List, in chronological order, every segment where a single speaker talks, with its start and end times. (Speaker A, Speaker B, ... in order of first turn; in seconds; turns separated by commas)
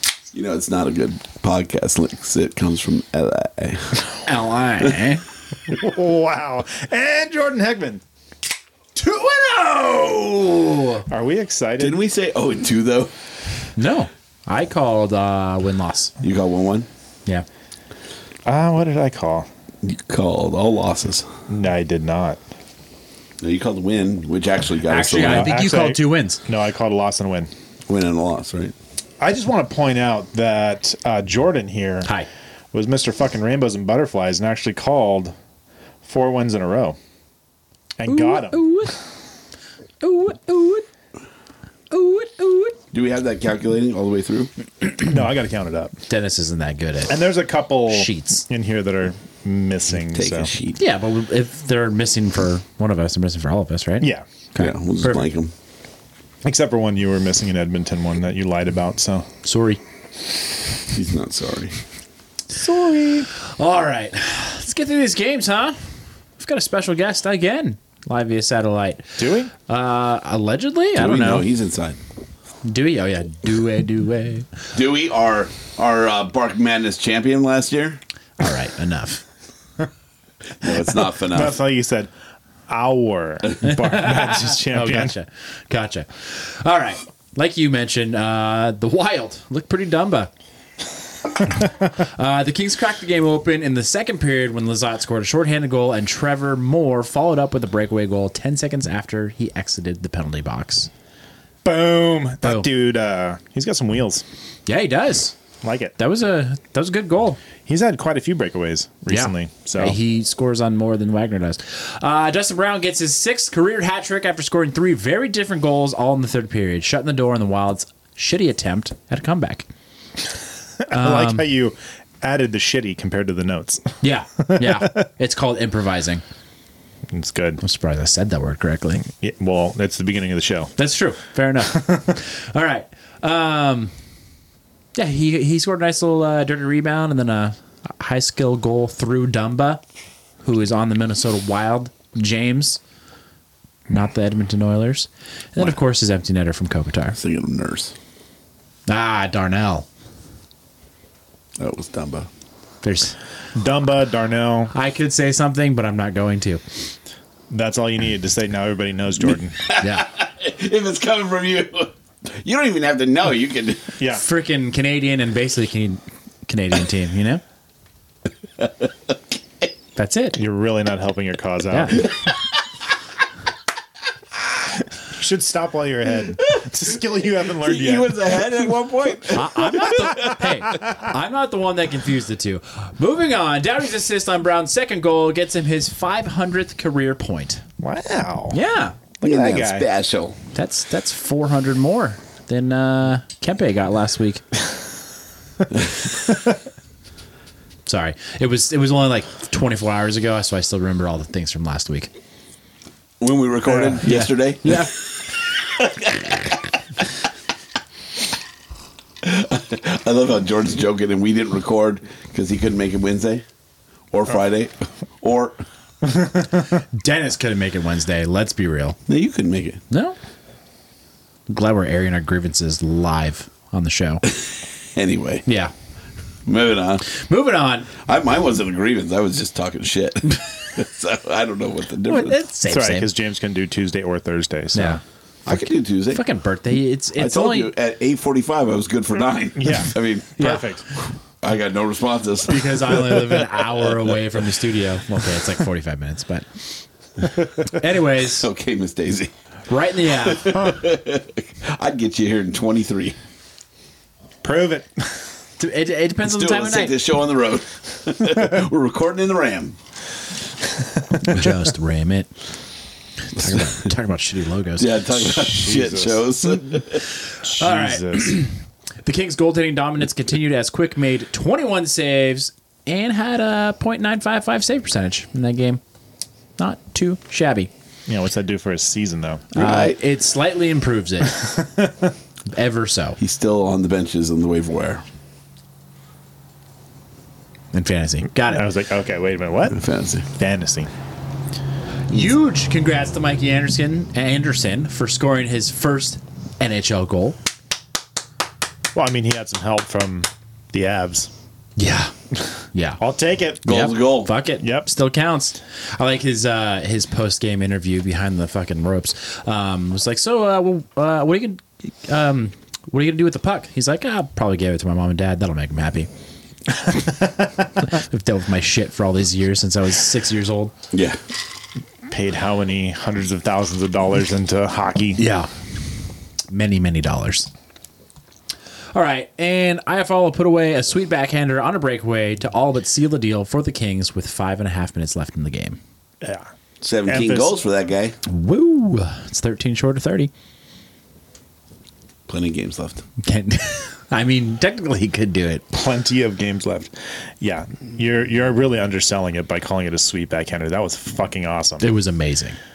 Speaker A: 0.3-4.0, Speaker B: 4.2-5.2, Speaker C: 5.7-8.0, Speaker B: 9.0-11.0, Speaker C: 11.1-12.0, Speaker A: 11.8-13.1, Speaker B: 13.8-16.1, Speaker A: 16.2-16.9, Speaker C: 18.4-19.5, Speaker A: 19.8-21.3, Speaker C: 21.5-22.4, Speaker A: 23.4-25.5, Speaker B: 24.9-26.4, Speaker C: 25.2-27.5, Speaker A: 27.9-28.7, Speaker C: 29.2-32.1, Speaker C: 32.7-35.3, Speaker C: 36.0-37.0, Speaker C: 38.0-38.6, Speaker B: 38.1-38.9, Speaker B: 40.0-40.9, Speaker B: 41.9-42.7, Speaker A: 42.9-44.5, Speaker C: 45.0-45.9, Speaker B: 46.1-47.1, Speaker C: 47.1-50.5, Speaker B: 47.9-48.5, Speaker A: 50.1-50.8, Speaker B: 50.8-55.3, Speaker C: 54.0-54.2, Speaker A: 54.6-55.5, Speaker C: 56.4-59.3, Speaker B: 59.4-59.8, Speaker A: 60.9-61.8, Speaker C: 62.5-63.3, Speaker B: 63.5-71.5, Speaker C: 69.2-69.5, Speaker A: 71.0-72.0, Speaker B: 72.6-74.5, Speaker A: 74.7-78.0, Speaker B: 78.4-79.2, Speaker A: 80.6-81.6, Speaker C: 81.3-82.1, Speaker C: 82.7-85.1, Speaker B: 83.6-90.3, Speaker B: 92.0-100.9, Speaker C: 101.6-104.2, Speaker B: 102.4-102.7, Speaker B: 104.7-105.3, Speaker C: 105.6-105.9, Speaker B: 106.0-107.4, Speaker C: 107.7-110.0, Speaker B: 109.1-119.7, Speaker C: 120.8-125.0, Speaker B: 120.9-121.5, Speaker B: 124.0-126.2, Speaker C: 127.1-127.6, Speaker B: 127.6-129.0, Speaker C: 129.1-130.7, Speaker B: 130.8-133.9, Speaker C: 131.7-132.1, Speaker B: 134.9-139.8, Speaker B: 140.4-142.8, Speaker B: 143.9-147.2, Speaker A: 147.2-147.9, Speaker B: 148.9-149.8, Speaker A: 151.6-152.3, Speaker B: 152.8-153.2, Speaker C: 153.6-154.7, Speaker B: 154.7-156.6, Speaker C: 157.5-159.6, Speaker A: 159.7-163.9, Speaker B: 159.8-160.1, Speaker B: 164.1-167.4, Speaker B: 169.9-170.4, Speaker C: 170.3-172.1, Speaker B: 171.7-172.0, Speaker C: 175.1-178.4, Speaker A: 177.6-180.3, Speaker B: 179.3-187.6, Speaker C: 187.8-188.6, Speaker B: 188.5-188.9, Speaker C: 189.2-189.8, Speaker A: 189.2-190.4, Speaker B: 190.5-194.4, Speaker B: 197.8-202.1, Speaker A: 203.2-204.9, Speaker B: 204.0-204.9, Speaker A: 205.7-206.2, Speaker A: 209.2-213.4, Speaker A: 214.1-215.6, Speaker B: 217.0-219.0, Speaker A: 219.1-219.8, Speaker B: 219.9-220.2, Speaker B: 221.5-224.2, Speaker A: 224.9-225.4, Speaker B: 225.4-225.7, Speaker A: 226.4-227.0, Speaker B: 227.0-227.9, Speaker A: 228.0-232.3, Speaker B: 232.1-233.1, Speaker C: 232.7-235.0, Speaker B: 234.7-235.0, Speaker A: 235.4-236.2, Speaker B: 236.1-237.7, Speaker A: 237.2-240.3, Speaker C: 239.6-240.8, Speaker B: 240.4-240.7, Speaker A: 241.4-244.1, Speaker B: 242.4-246.8, Speaker B: 247.7-248.5, Speaker A: 248.2-249.3, Speaker B: 249.7-250.7, Speaker A: 250.1-253.2, Speaker C: 254.4-255.2, Speaker B: 255.6-256.9, Speaker A: 256.2-259.8, Speaker B: 261.2-262.3, Speaker B: 263.2-265.0, Speaker A: 264.8-267.0, Speaker C: 265.6-266.2, Speaker C: 267.4-268.4, Speaker B: 267.6-275.8, Speaker B: 276.6-277.7, Speaker C: 278.1-279.4, Speaker B: 279.5-281.5, Speaker A: 279.5-280.0, Speaker C: 281.4-281.9, Speaker B: 282.5-283.2, Speaker A: 283.2-285.0, Speaker B: 287.7-288.7, Speaker C: 288.4-289.8, Speaker A: 289.7-290.2, Speaker C: 290.3-290.9, Speaker B: 292.1-297.4, Speaker C: 298.9-301.3, Speaker B: 301.8-302.1, Speaker B: 302.7-303.0, Speaker C: 303.0-303.7, Speaker A: 303.6-304.3, Speaker B: 303.6-316.1, Speaker C: 304.6-304.9, Speaker B: 317.8-320.7, Speaker A: 320.9-321.2, Speaker C: 322.1-325.2, Speaker B: 325.2-325.5, Speaker B: 326.5-327.5, Speaker B: 328.9-335.8, Speaker C: 336.2-336.5, Speaker A: 336.8-338.2, Speaker C: 337.1-337.6, Speaker B: 338.2-340.3, Speaker A: 342.3-343.0, Speaker B: 343.2-345.6, Speaker C: 345.7-351.9, Speaker B: 351.8-352.6